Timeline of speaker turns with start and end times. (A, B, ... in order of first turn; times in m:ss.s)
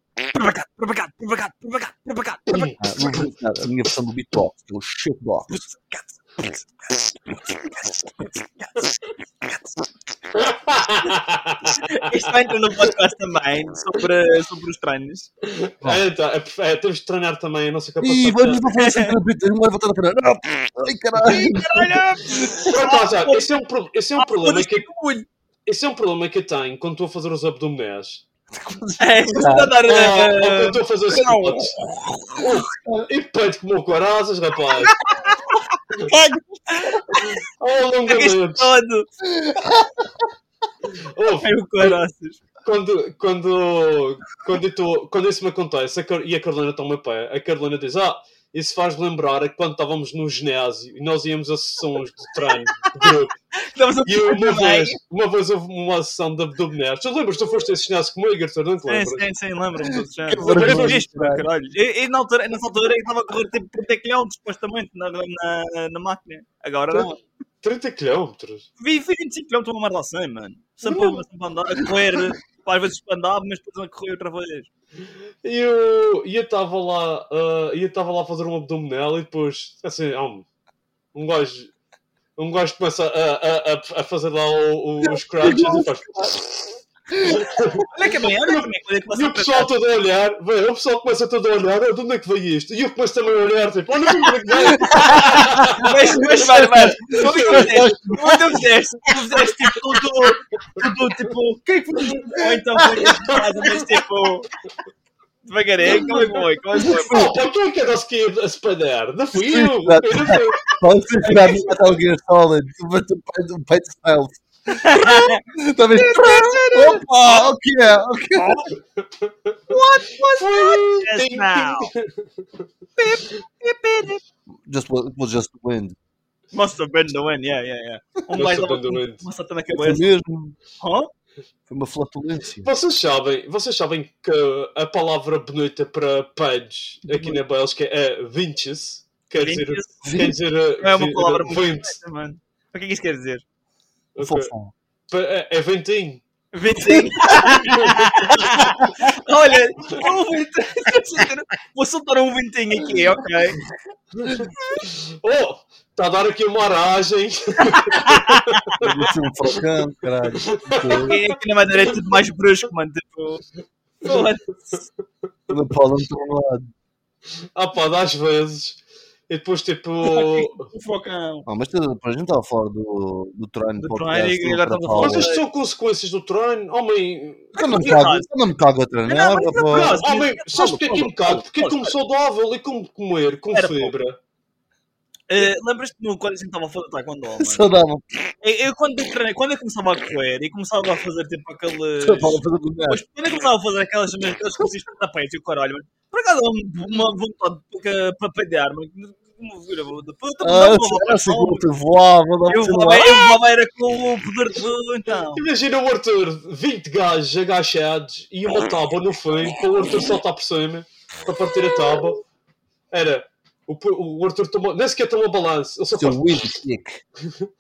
0:00.3-0:03.2 A
0:02.5-0:02.8 B
0:02.8-0:05.6 C
0:05.5-0:09.8 A
0:10.4-0:11.8 B
0:11.6-0:15.3 A
0:15.4-0:18.6 B
0:18.0-0:22.0 C
0:18.7-0:19.2 A
0:21.2-0:23.5 A
0:22.6-0:24.9 B
0:24.2-0:25.3 A
0:25.6-0:28.2 B
0:28.5-0:29.8 C
0:29.0-0:32.0 A
0:29.8-0:31.8 B
0:32.4-0:35.0 B
0:35.0-0:37.4 A
0:37.2-0:38.7 B
0:38.1-0:39.1 A
0:39.2-0:40.3 C
0:41.1-0:42.0 B
0:41.4-0:42.4 A
0:42.6-0:53.4 B
0:52.5-0:53.0 A
0:53.6-0:55.0 A
0:54.0-0:59.3 B
0:58.8-1:07.2 A
1:00.3-1:01.5 C
1:00.5-1:01.0 B
1:07.6-1:08.7 B
1:08.8-1:14.7 A
1:15.4-1:20.4 B
1:21.1-1:21.7 B
1:22.4-1:27.8 B
1:25.0-1:26.3 C
1:27.1-1:27.8 C
1:27.9-1:29.7 A
1:29.1-1:35.9 B
1:34.6-1:44.5 A
1:34.6-1:38.6 C
1:37.2-1:37.7 B
1:42.3-1:43.2 C
1:45.4-1:47.3 A
1:45.9-1:47.4 C
1:46.9-1:50.7 B
1:49.3-1:58.7 C
1:50.7-1:51.7 A
1:54.7-1:55.4 A
1:55.9-1:57.5 A
1:58.4-1:58.7 A
1:59.7-2:01.9 A
2:00.4-2:02.1 B
2:03.0-2:04.2 A
2:04.6-2:06.0 C
2:06.5-2:10.0 A
2:08.3-2:09.2 B
2:09.7-2:10.6 C
2:10.8-2:11.1 A
2:11.7-2:12.7 C
2:12.6-2:22.0 B
2:19.4-2:20.0 A
2:20.0-2:20.4 C
2:20.8-2:23.4 A
2:24.2-2:24.5 B
2:24.2-2:24.7 C
2:25.1-2:26.2 B
2:26.5-2:33.6 A
2:34.2-2:38.9 B
2:37.7-2:38.7 A
2:38.8-2:41.2 C
2:40.4-2:41.2 B
2:41.0-2:43.4 A
2:44.0-2:44.8 A
2:45.5-2:46.7 C
2:47.5-2:50.7 B
2:50.0-2:51.4 A
2:51.4-2:55.3 C
2:53.8-2:55.4 A
2:55.0-2:57.5 B
2:57.5-3:00.0 C
2:57.6-2:58.3 A
2:59.0-3:01.9 A
2:59.7-3:04.2 B
3:03.5-3:03.9 A
3:05.3-3:07.6 A
3:07.4-3:08.2 C
3:08.4-3:21.6 A
3:12.0-3:13.0 C
3:20.4-3:23.4 C
3:22.5-3:25.4 A
3:25.3-3:32.2 B
3:32.9-3:36.5 B
3:36.0-3:37.0 C